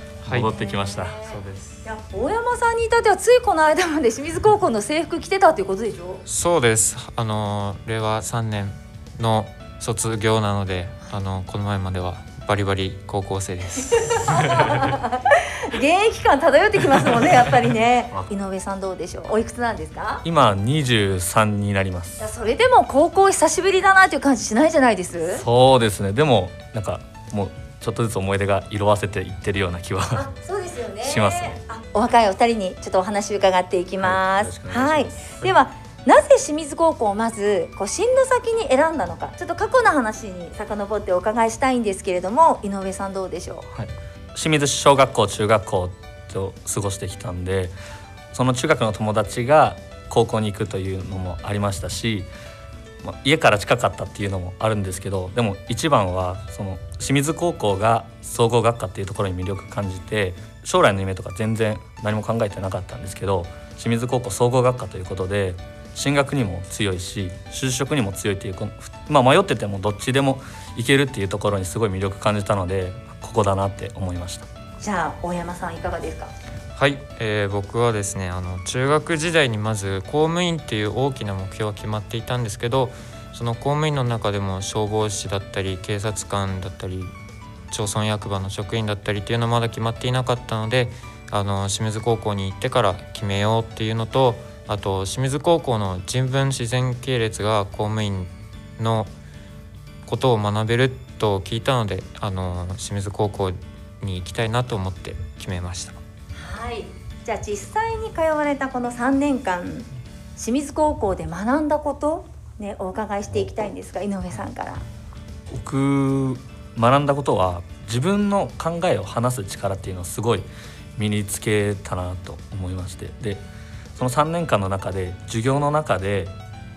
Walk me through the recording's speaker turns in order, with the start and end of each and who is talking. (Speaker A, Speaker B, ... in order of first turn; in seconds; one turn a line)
Speaker A: 0.2-0.5
Speaker B: 0.3-1.1
Speaker C: 0.5-6.2
Speaker A: 1.2-1.8
Speaker A: 6.2-14.6
Speaker C: 14.1-20.2
Speaker B: 20.2-22.2
Speaker C: 22.2-25.4
Speaker B: 25.3-30.2
Speaker C: 30.1-43.7
Speaker B: 31.0-31.6
Speaker B: 34.0-35.5
Speaker B: 43.7-47.7
Speaker B: 48.3-52.3
Speaker B: 53.0-74.5
Speaker C: 74.8-76.3
Speaker A: 76.8-87.1
Speaker A: 87.7-99.1
Speaker A: 100.0-106.0
Speaker C: 106.3-114.8
Speaker B: 115.5-123.4
Speaker B: 124.0-126.3